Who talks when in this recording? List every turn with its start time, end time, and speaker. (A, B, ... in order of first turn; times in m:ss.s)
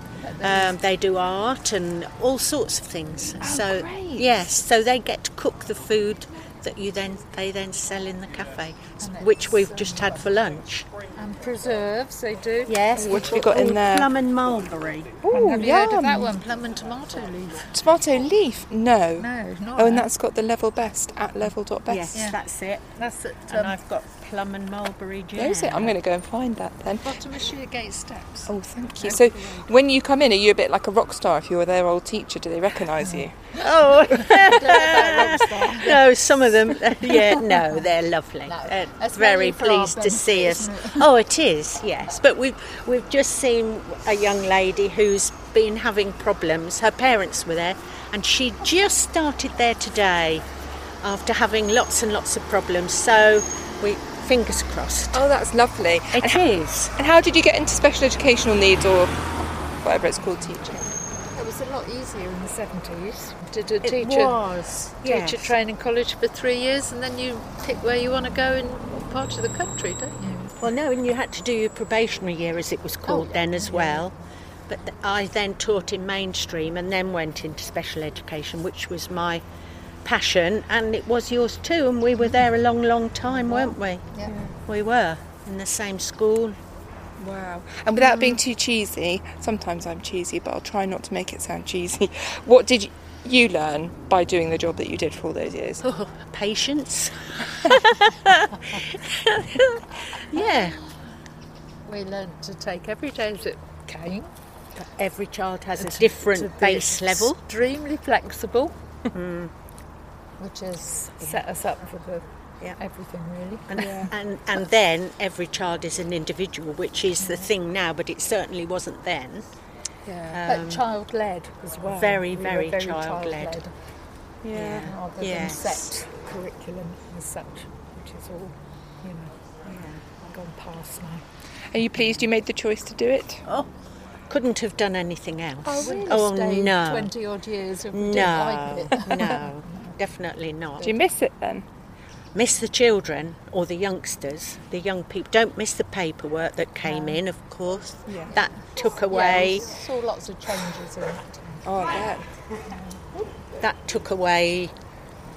0:00.2-0:00.8 A
0:00.4-0:10.9 B
0:03.4-0:04.4 C
0:09.0-0:10.4 A
0:11.2-0:13.4 A
0:12.7-0:15.2 B
0:13.0-0:14.1 C
0:15.2-0:16.3 C
0:15.3-0:17.7 A
0:17.7-0:22.2 C
0:19.2-0:20.1 A
0:21.9-0:23.0 B
0:22.1-0:22.4 A
0:23.0-0:23.8 A
0:23.5-0:26.0 B
0:25.4-0:27.1 C
0:27.0-0:29.7 A
0:28.5-0:33.4 C
0:33.6-0:50.4 B
0:33.9-0:36.2 A
0:37.0-0:37.5 A
0:38.5-0:41.1 A
0:51.0-0:55.2 B
0:55.1-0:56.4 C
0:56.1-0:57.0 B
0:57.0-0:59.1 C
0:59.8-1:00.8 C
1:01.3-1:04.4 A
1:03.8-1:05.5 B
1:05.0-1:10.6 A
1:10.6-1:14.1 B
1:13.1-1:14.1 A
1:14.7-1:19.4 B
1:20.0-1:26.6 B
1:23.4-1:24.3 A
1:24.3-1:24.5 C
1:27.2-1:35.8 C
1:35.8-1:40.8 B
1:41.9-1:44.3 A
1:44.8-1:47.4 B
1:45.8-1:48.7 A
1:49.1-1:49.5 B
1:50.4-1:52.2 A
1:52.8-1:53.9 A
1:53.7-1:59.4 B
1:53.8-1:54.1 C
1:57.2-1:57.5 A
2:00.1-2:00.4 C
2:00.3-2:00.8 B
2:00.5-2:03.7 A
2:01.9-2:03.6 B
2:04.4-2:04.9 C
2:04.5-2:05.9 B
2:04.8-2:09.3 A
2:09.6-2:10.1 B
2:10.2-2:11.2 A
2:11.7-2:13.4 C
2:14.3-2:17.1 B
2:15.7-2:16.2 C
2:15.7-2:20.0 A
2:17.9-2:20.9 B
2:20.8-2:21.6 C
2:22.3-2:29.7 B
2:26.8-2:27.2 A
2:28.1-2:28.4 C
2:28.3-2:31.7 A
2:31.6-2:32.2 C
2:32.7-2:33.0 A
2:33.6-2:34.7 B